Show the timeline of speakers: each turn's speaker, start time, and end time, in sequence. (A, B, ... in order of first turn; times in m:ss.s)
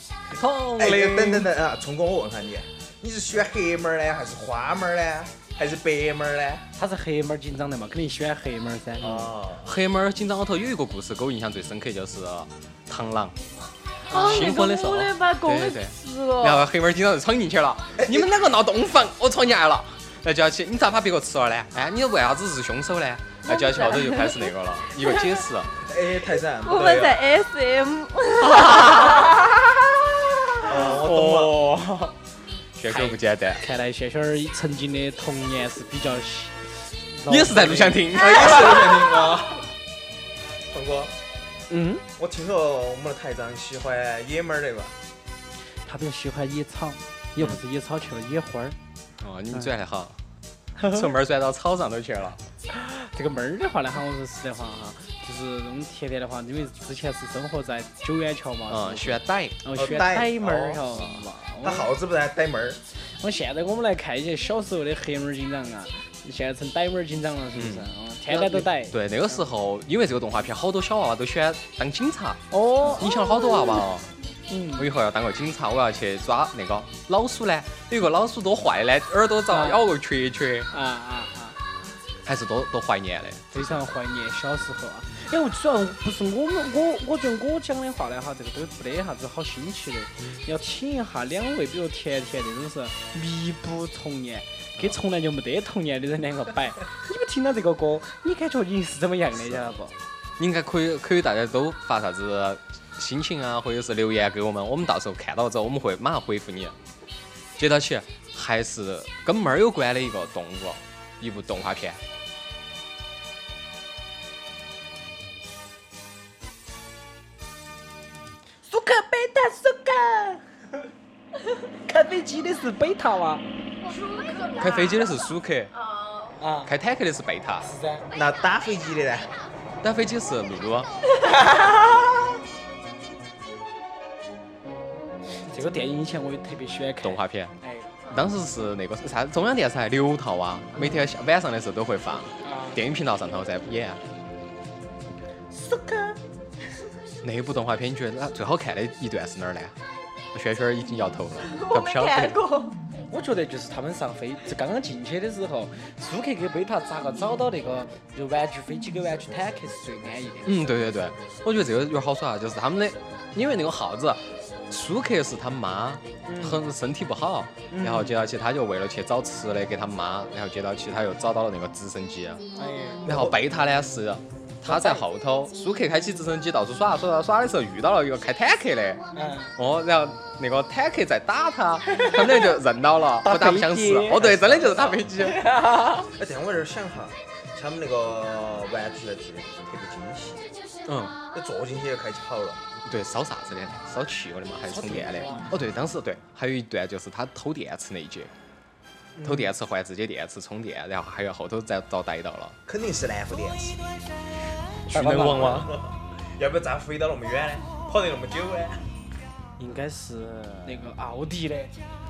0:00.3-0:01.5 A
0:00.8-0:06.6 B
0:06.8-0:09.2 C
0:09.0-0:09.7 B
0:09.1-0:13.4 A
0:14.1-0:16.7 D
0:14.1-0:14.5 C
0:14.2-0:25.7 A
0:18.0-0:18.3 B
0:23.4-0:25.4 D
0:25.8-0:27.2 B
0:26.6-0:29.4 D
0:28.4-0:29.5 A
0:30.7-0:31.6 B
0:30.7-0:32.2 A
0:32.8-0:33.6 A
0:32.9-0:38.4 C
0:37.2-0:38.9 A
0:38.1-0:39.7 B
0:40.7-0:41.1 B
0:41.7-0:42.0 C
0:42.2-0:44.9 B
0:45.8-0:48.8 C
0:49.2-0:50.2 A
0:50.9-0:52.4 A
0:52.7-1:01.9 C
0:58.7-0:59.6 A
0:59.7-1:00.9 B
1:01.6-1:02.8 B
1:02.9-1:09.0 C
1:07.6-1:14.1 A
1:12.5-1:13.1 C
1:14.5-1:14.9 C
1:14.8-1:20.7 A
1:19.5-1:19.8 C
1:20.7-1:21.6 C
1:22.2-1:23.8 A
1:23.5-1:40.0 C
1:39.4-1:39.7 A
1:40.4-1:46.7 A
1:47.6-1:52.0 A
1:58.7-2:00.4 C
2:01.9-2:03.4 C
2:03.8-2:05.2 D
2:04.6-2:05.7 A
2:05.7-2:06.4 D
2:06.4-2:06.7 C
2:06.6-2:07.7 A
2:07.6-2:08.1 C
2:08.1-2:09.3 B
2:09.8-2:10.9 A
2:11.4-2:12.0 C
2:15.4-2:18.0 C
2:17.0-2:17.6 A
2:18.1-2:24.0 A
2:22.4-2:22.8 C
2:25.5-2:26.2 C
2:27.2-2:29.8 A
2:30.3-2:32.4 A
2:31.5-2:32.8 D
2:33.1-2:40.7 C
2:40.4-2:52.4 A
2:46.3-2:46.6 C
2:47.7-2:48.2 C
2:52.6-2:53.1 C
2:53.0-3:05.5 A
2:53.0-2:53.3 B
2:54.6-2:55.1 C
2:59.1-2:59.5 C
3:01.8-3:02.6 C
3:03.2-3:06.1 C
3:06.1-3:10.5 B
3:10.8-3:11.2 A
3:11.3-3:12.6 B
3:12.8-3:18.3 A
3:14.7-3:15.6 C
3:19.2-3:19.5 C
3:19.2-3:22.6 A
3:22.7-3:23.9 B
3:24.9-3:25.7 A
3:24.9-3:25.7 C
3:25.4-3:28.8 B
3:29.6-3:31.7 C